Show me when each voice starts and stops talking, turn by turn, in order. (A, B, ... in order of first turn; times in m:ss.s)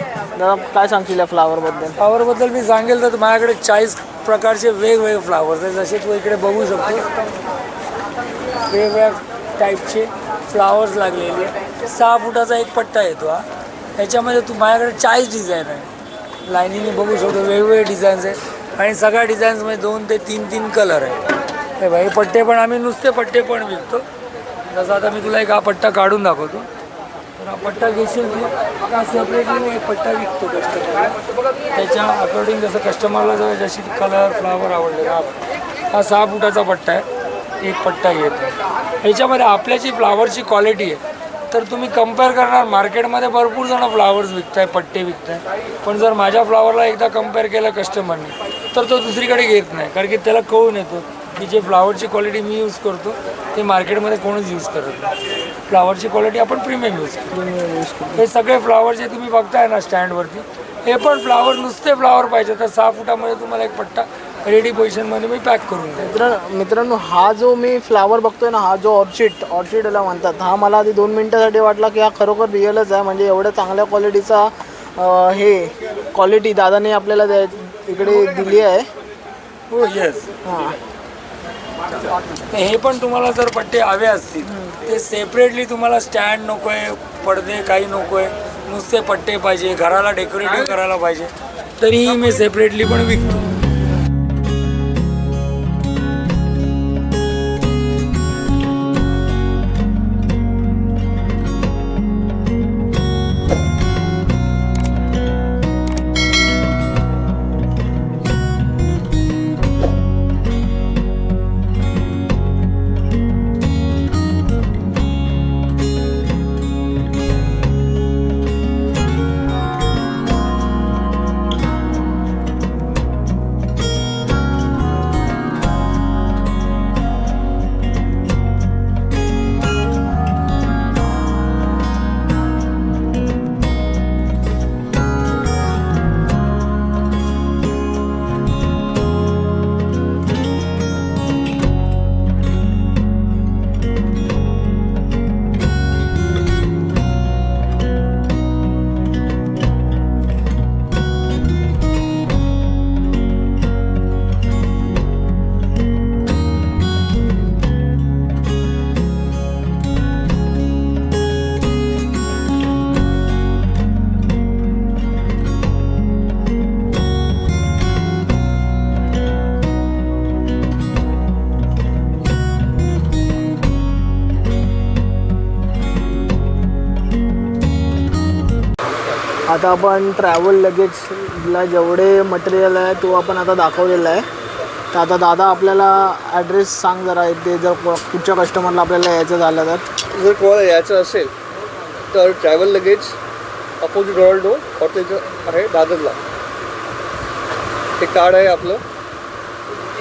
0:00.4-0:02.0 A
0:02.0-0:07.1 B
0:08.7-0:15.9 B
0:16.4-0:21.2 B
0:21.8-0:24.1 B
0:24.7-0:26.7 B
0:27.4-0:31.2 B
0:31.7-0:35.4 B
0:35.9-0:37.0 B
0:37.6-0:55.1 B
0:55.7-0:57.4 B
0:57.3-0:58.2 A
0:58.2-1:06.2 B
1:06.0-1:18.9 A
1:19.7-1:20.3 B
1:20.4-1:20.8 A
1:22.5-1:33.6 B
1:24.4-1:24.8 A
2:59.5-3:04.2 A
3:04.9-3:09.8 A
3:10.1-3:11.3 C
3:12.1-3:13.2 C
3:13.8-3:16.2 C
3:18.0-3:18.8 C